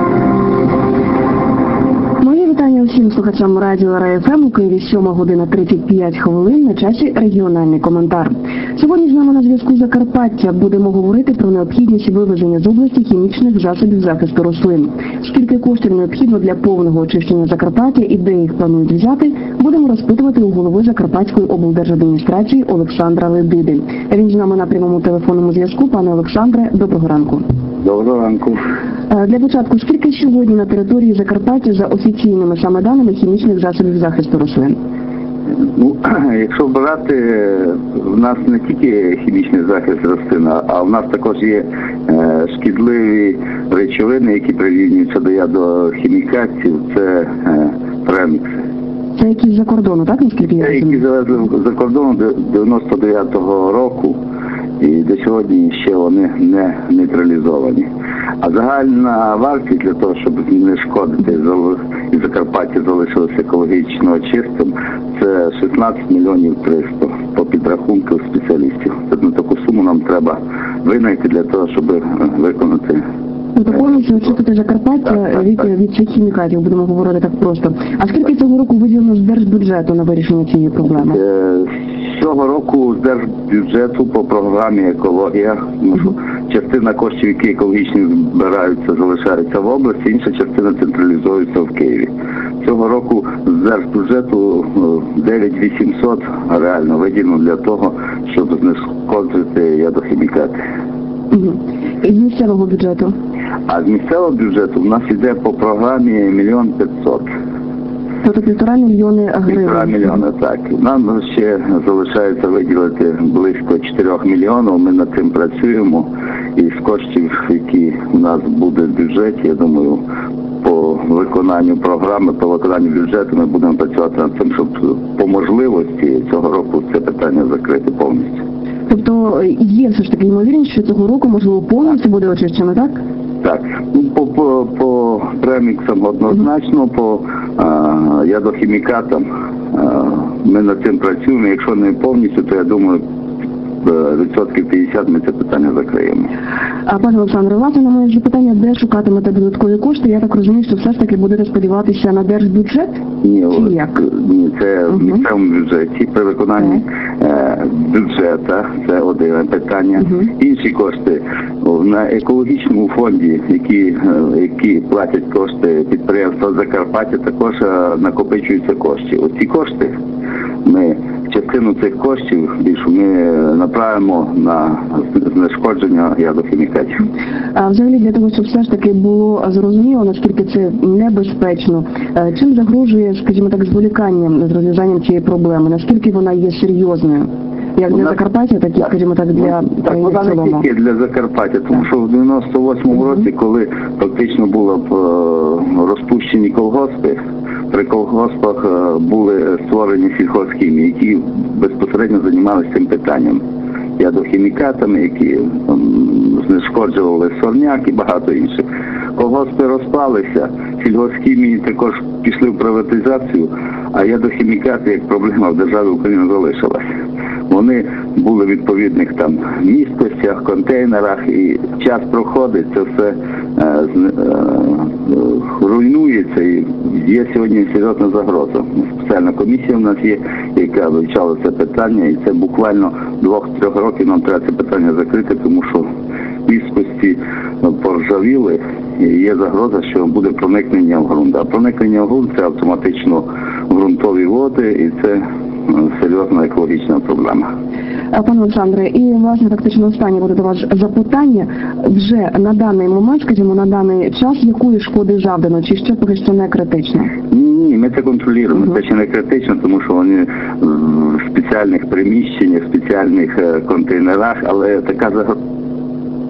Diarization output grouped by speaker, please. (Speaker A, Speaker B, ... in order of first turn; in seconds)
Speaker A: 2.2-27.4, 29.1-34.8, 49.1-51.0, 73.5-81.2, 101.3-103.1, 108.2-110.1, 128.9-133.0, 146.8-153.9, 177.5-190.7, 248.1-257.1
Speaker B: 27.8-28.6, 35.7-48.6, 50.6-54.2, 54.8-57.9, 58.4-73.0, 81.1-92.1, 92.6-100.6, 103.7-107.3, 109.5-120.0, 120.6-128.4, 133.4-143.0, 143.8-146.3, 153.2-169.9, 170.6-177.1, 189.3-203.4, 204.0-216.8, 217.5-235.8, 236.4-247.5, 257.3-265.3